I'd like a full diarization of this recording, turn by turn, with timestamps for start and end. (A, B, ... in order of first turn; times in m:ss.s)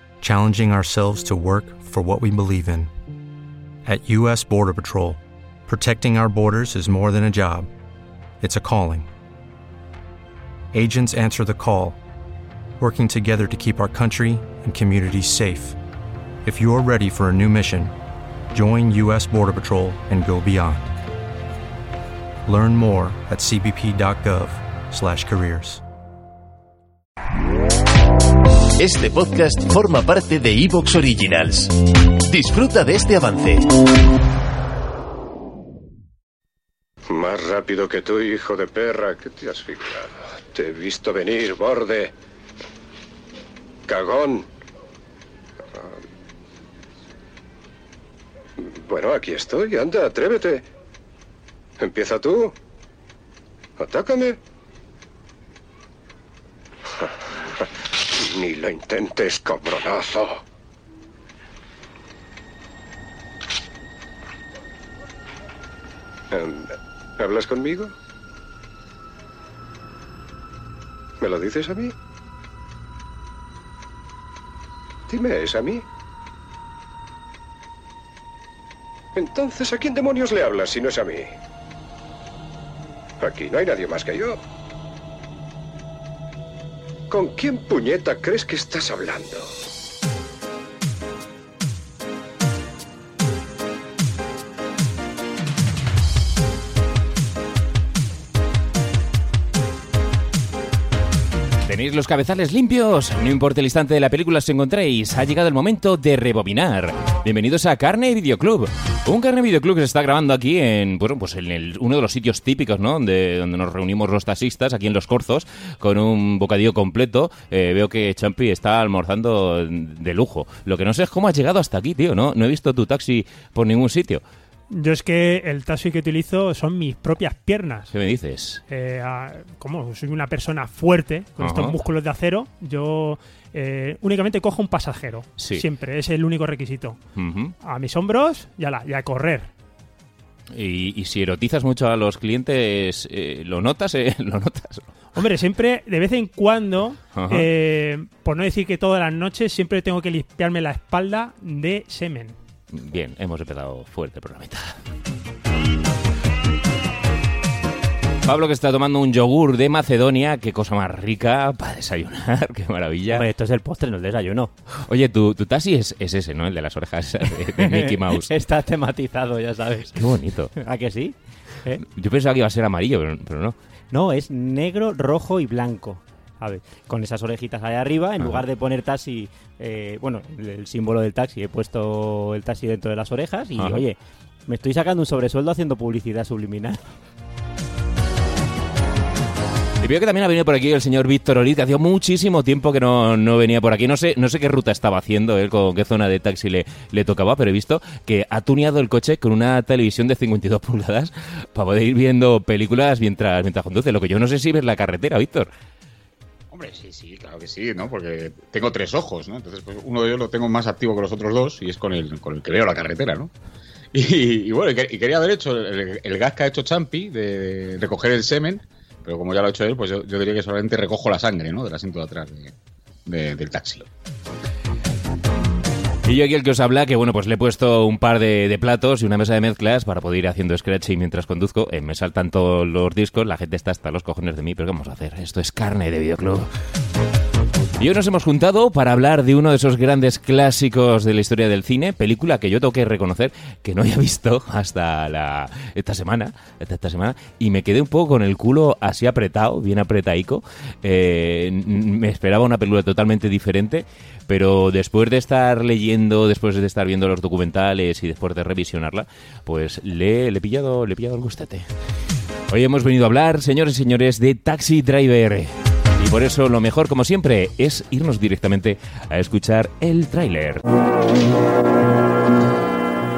0:00.2-0:02.9 A
0:03.8-0:07.7 A
0:08.4-0:09.1 A
0:10.7-0:12.0 A
0:12.8-0:15.8 A
0:16.4-0:17.9 A
0:18.5-0:20.9 A
0:22.4-0:25.8 A
0:28.8-0:31.7 B
0:32.2-0:33.7 B
0:37.1-0:42.1 C
0:43.9-0:44.4 C
0:48.6-0:50.6 C
0:51.8-0:52.5 C
0:53.8-0:54.4 C
0:58.1-1:00.4 C
1:06.3-1:07.9 C
1:11.2-1:11.9 C
1:15.1-1:15.8 C
1:19.1-1:21.3 C
1:23.2-1:24.4 C
1:27.1-1:29.5 C
1:41.6-2:04.2 D
2:04.7-2:07.9 E
2:07.9-2:08.6 D
2:08.7-2:17.0 E
2:11.4-2:11.8 D
2:15.4-2:15.7 D
2:17.1-2:17.5 D
2:17.6-2:19.5 E
2:20.5-2:24.9 D
2:25.1-2:32.4 E
2:27.1-2:27.5 D
2:32.7-2:34.8 D
2:38.2-2:43.2 D
2:43.1-2:44.5 F
2:44.7-2:48.3 D
2:47.5-2:51.8 F
2:49.9-2:50.5 D
2:51.8-2:53.6 D
2:53.9-3:06.8 F
3:03.6-3:03.8 D
3:09.8-3:25.5 D
3:26.5-3:33.3 G
3:33.9-3:42.5 G
3:43.0-3:43.9 G
3:46.0-3:56.5 D
3:57.8-4:21.7 D
4:22.5-4:30.6 D